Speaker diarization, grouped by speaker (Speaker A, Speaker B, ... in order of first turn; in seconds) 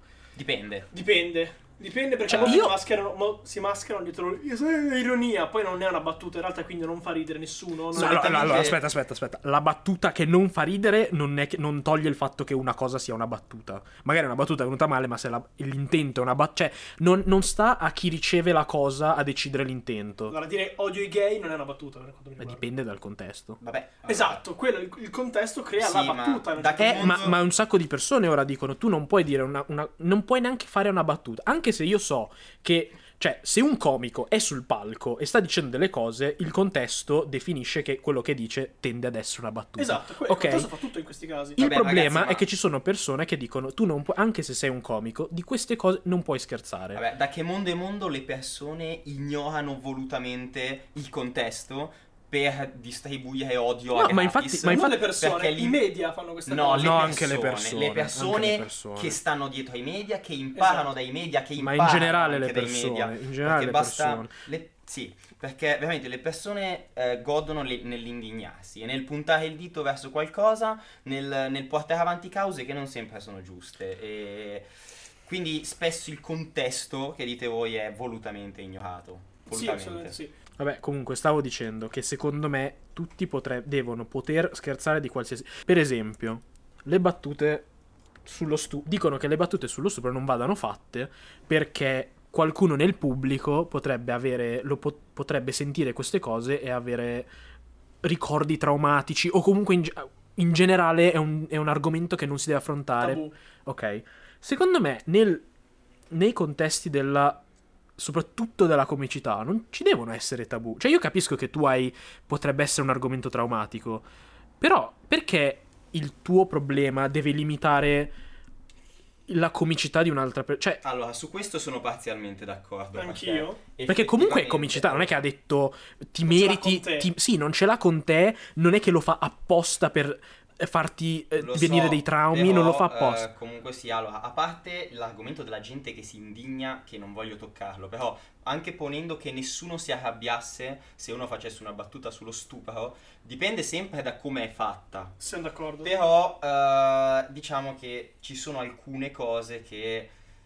Speaker A: 0.4-0.9, 2.3-2.7, 7.9-8.8, 23.6-24.4, 25.8-27.4, 41.6-42.5, 46.9-55.8, 56.5-74.7, 75.2-80.2, 120.8-125.2, 131.4-145.2, 145.8-150.1
Speaker B: 0.9-8.7, 20.3-22.6, 24.1-27.3, 39.8-41.6, 54.6-57.2, 60.5-60.9, 79.5-80.3, 103.0-103.3, 123.0-123.6, 126.3-127.1, 145.2-145.9
Speaker C: 2.3-2.8, 7.9-20.4, 22.4-23.6, 26.8-40.7, 41.6-47.0, 54.0-55.0, 56.8-59.2, 61.6-64.3, 80.6-87.7, 88.2-97.3, 98.0-105.4, 106.1-107.4, 108.0-114.1, 114.6-118.1, 119.3-120.8, 123.9-133.2